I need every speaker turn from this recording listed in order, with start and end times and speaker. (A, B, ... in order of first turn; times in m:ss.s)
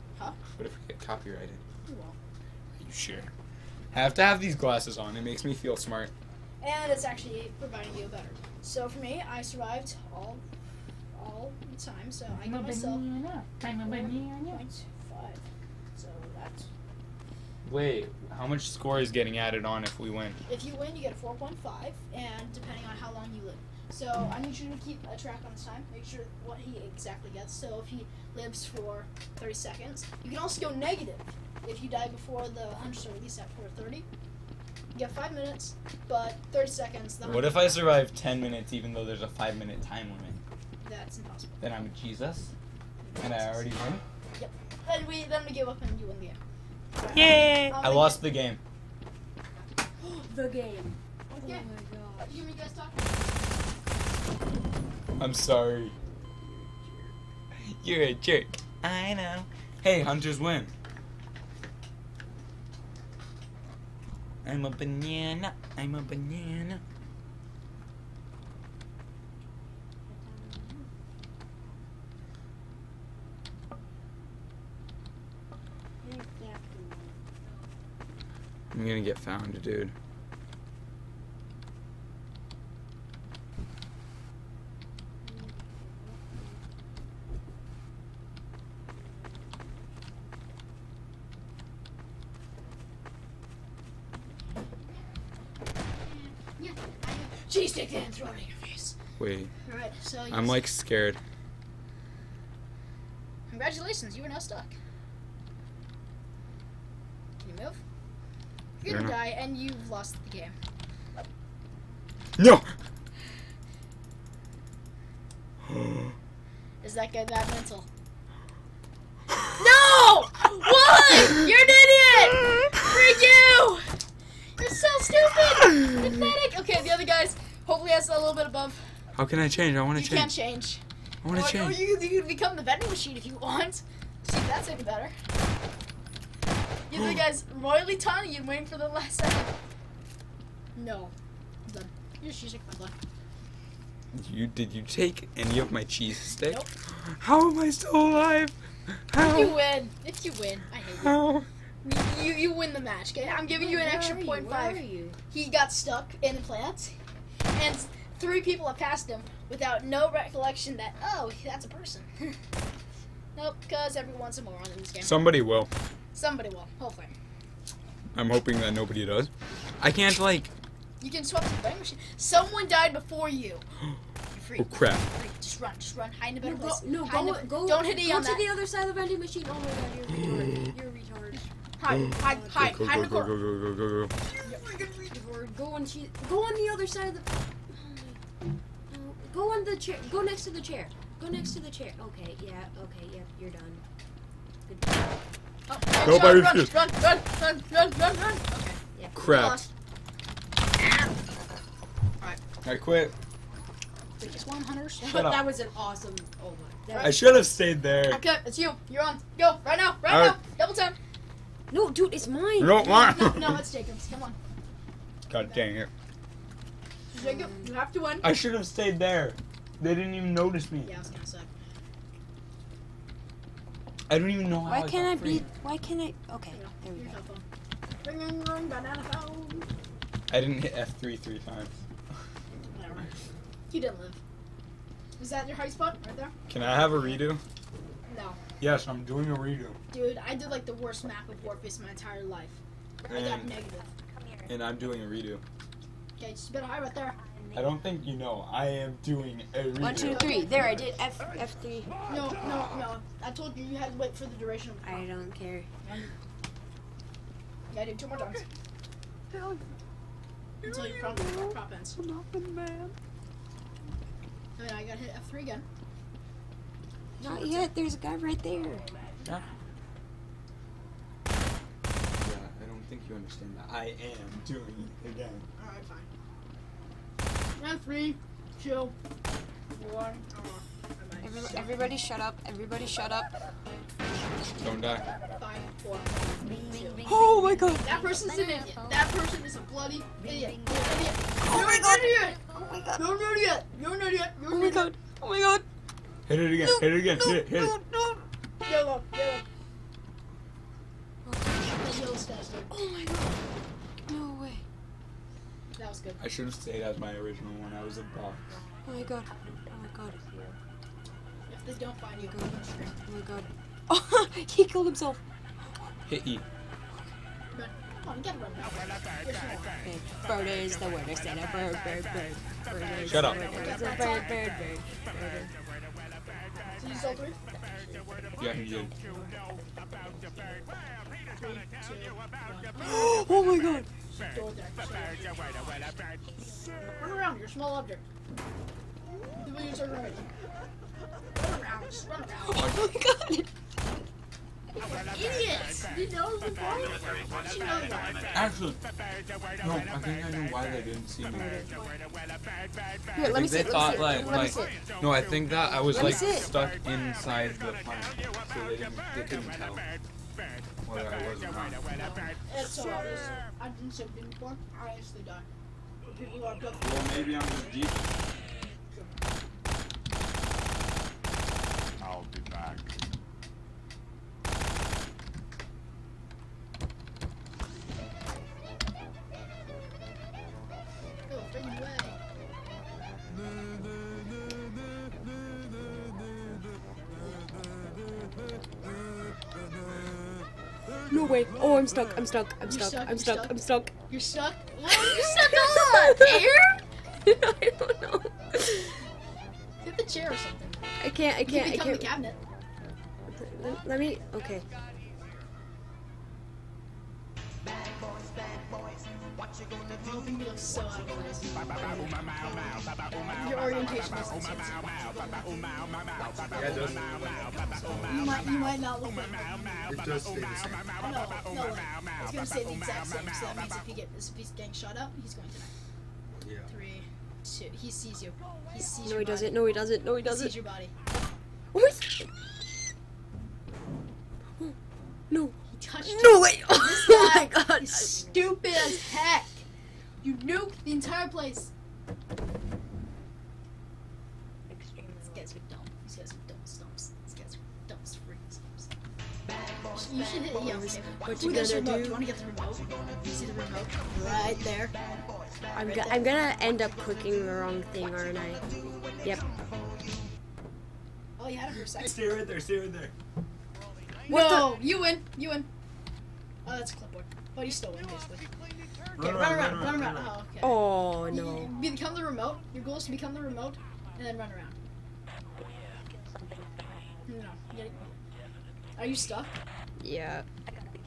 0:00.5-0:01.6 A
0:01.9-0:02.2 B
0:02.8-0:03.3 A
0:03.9-0:06.1 A
0:06.6-0:10.4 B
0:11.1-0:13.0 B
0:12.4-0:14.6 A
0:13.8-0:15.4 B
0:16.0-0:16.7 B
0:17.6-0:20.4 A
0:20.5-0:34.1 B
0:34.9-0:37.8 B
0:37.2-0:40.4 A
0:40.8-0:41.6 B
0:41.6-0:42.5 A
0:43.0-0:43.7 B
0:43.2-0:44.0 A
0:44.4-0:46.4 B
0:47.0-0:48.2 B
0:47.1-0:48.6 A
0:50.0-0:52.4 C
0:51.3-0:51.7 B
0:52.2-0:53.5 B
0:55.2-0:55.9 A
0:56.0-0:57.1 C
0:57.5-1:00.7 A
1:04.4-1:06.8 A
1:10.1-1:10.9 C
1:16.0-1:17.2 C
1:18.7-1:19.9 A
1:25.2-1:26.7 C
1:29.0-1:29.5 C
1:35.9-1:39.0 B
1:39.2-1:39.5 A
1:39.6-1:40.6 B
1:40.3-1:41.2 A
1:43.5-1:44.7 B
1:47.4-1:47.8 B
1:48.8-1:50.5 B
1:48.9-1:49.1 A
1:52.4-1:52.7 A
1:55.6-1:56.1 A
1:56.8-1:57.9 B
1:59.5-2:03.9 B
2:04.6-2:08.8 B
2:09.2-2:10.4 A
2:10.0-2:15.1 B
2:11.2-2:11.8 A
2:16.9-2:19.5 B
2:20.8-2:21.1 B
2:21.7-2:23.0 B
2:24.1-2:29.6 A
2:26.4-2:26.7 B
2:29.2-2:31.3 B
2:31.0-2:31.5 A
2:31.8-2:37.0 B
2:33.5-2:35.2 C
2:37.5-2:42.4 B
2:43.4-2:45.3 B
2:45.0-2:45.7 A
2:46.2-2:47.1 B
2:48.2-2:50.5 A
2:51.0-2:53.6 B
2:54.3-2:58.5 B
2:54.6-2:55.1 A
2:56.4-3:01.5 C
3:00.2-3:00.7 A
3:01.8-3:03.3 B
3:01.9-3:04.1 A
3:02.2-3:02.6 C
3:04.4-3:08.2 C
3:08.9-3:13.8 C
3:14.7-3:15.2 C
3:15.7-3:19.7 B
3:16.0-3:16.8 A
3:19.2-3:19.7 A
3:20.8-3:21.1 B
3:22.6-3:23.1 A
3:24.2-3:25.4 B
3:25.1-3:25.4 A
3:25.1-3:27.2 C
3:26.9-3:27.4 B
3:27.0-3:28.2 A
3:28.0-3:31.0 B
3:30.1-3:30.4 A
3:31.7-3:33.3 C
3:32.6-3:33.6 A
3:32.8-3:34.4 B
3:35.3-3:35.9 A
3:37.1-3:37.7 C
3:37.1-3:38.3 B
3:38.2-3:40.9 A
3:40.8-3:41.5 B
3:44.1-3:45.5 A
3:44.6-3:47.2 C
3:46.5-3:47.4 B
3:48.0-3:49.7 B
3:50.3-3:51.8 A
3:52.7-3:53.1 B
3:53.7-3:54.2 B
3:55.2-3:56.3 B
3:56.5-3:57.4 A
3:58.1-3:58.4 B
3:58.6-3:59.8 A
3:59.9-4:03.9 B
4:03.1-4:03.6 A
4:04.5-4:05.4 A
4:06.2-4:07.2 B
4:07.5-4:10.3 A
4:09.8-4:12.0 C
4:09.8-4:11.0 B
4:12.1-4:15.1 B
4:14.8-4:15.7 C
4:15.8-4:16.1 B
4:17.7-4:18.5 B
4:19.3-4:19.6 C
4:20.6-4:22.9 C
4:20.6-4:22.0 B
4:24.6-4:25.7 B
4:27.2-4:28.9 C
4:27.2-4:27.7 B
4:32.2-4:35.5 A
4:35.6-4:36.1 B
4:37.6-4:39.0 B
4:39.8-4:41.8 B
4:41.2-4:43.4 C
4:44.6-4:45.1 A
4:45.4-4:52.4 B
4:46.5-4:49.1 C
4:50.2-4:53.1 C
4:53.0-4:54.9 B
4:54.5-4:55.6 C
4:56.3-4:57.8 A
4:56.6-4:58.2 C
4:58.6-4:59.4 B
5:01.2-5:02.0 C
5:01.8-5:02.8 B
5:02.7-5:03.5 C
5:04.1-5:04.6 C
5:05.7-5:06.2 B
5:06.2-5:08.5 A
5:08.8-5:10.6 C
5:11.5-5:12.9 B
5:12.2-5:15.2 C
5:16.1-5:16.4 A
5:17.5-5:19.8 B
5:19.8-5:25.5 C
5:23.0-5:23.5 A
5:23.5-5:24.4 B
5:26.6-5:28.2 C
5:26.8-5:27.4 B
5:28.4-5:28.9 A
5:29.0-5:29.3 C
5:31.3-5:33.3 B
5:32.8-5:33.9 C
5:34.1-5:35.6 B
5:37.0-5:38.0 B
5:39.4-5:40.3 B
5:41.4-5:42.7 B
5:42.4-5:43.5 C
5:45.1-5:48.3 B
5:48.3-5:48.8 A
5:49.6-5:51.5 A
5:51.3-5:51.7 C
5:53.2-5:54.8 C
5:53.2-5:59.8 A
5:55.9-5:56.5 C
6:00.9-6:01.8 A
6:01.9-6:05.5 B
6:06.1-6:07.9 B
6:06.8-6:08.1 A
6:21.3-6:22.2 B
6:31.1-6:33.9 C
6:32.7-6:36.8 B
6:34.9-6:36.6 C
6:37.2-6:38.9 C
6:39.8-6:40.8 B
6:41.0-6:42.1 C
6:41.5-6:42.4 B
6:43.3-6:44.7 C
6:49.9-6:56.8 B
6:51.7-6:52.3 C
6:56.5-6:58.2 A
6:58.0-6:59.9 B
6:59.9-7:00.9 A
7:01.0-7:05.7 B
7:06.4-7:06.7 A
7:06.7-7:10.9 B
7:09.0-7:10.5 C
7:11.7-7:12.3 C
7:15.3-7:19.0 C
7:15.7-7:19.6 B
7:20.2-7:21.7 B
7:24.7-7:25.5 C
7:25.3-7:28.9 B
7:29.9-7:36.3 B
7:30.6-7:32.2 C
7:35.7-7:38.7 C
7:39.2-7:39.5 C
7:41.4-7:42.2 B
7:42.0-7:43.1 A
7:44.3-7:44.7 C
7:44.3-7:45.7 B
7:46.6-7:48.4 B
7:49.2-7:50.3 A
7:49.2-7:54.8 B
7:50.6-7:51.7 C
7:57.3-7:58.2 B
7:59.0-7:59.6 B
8:00.0-8:00.5 C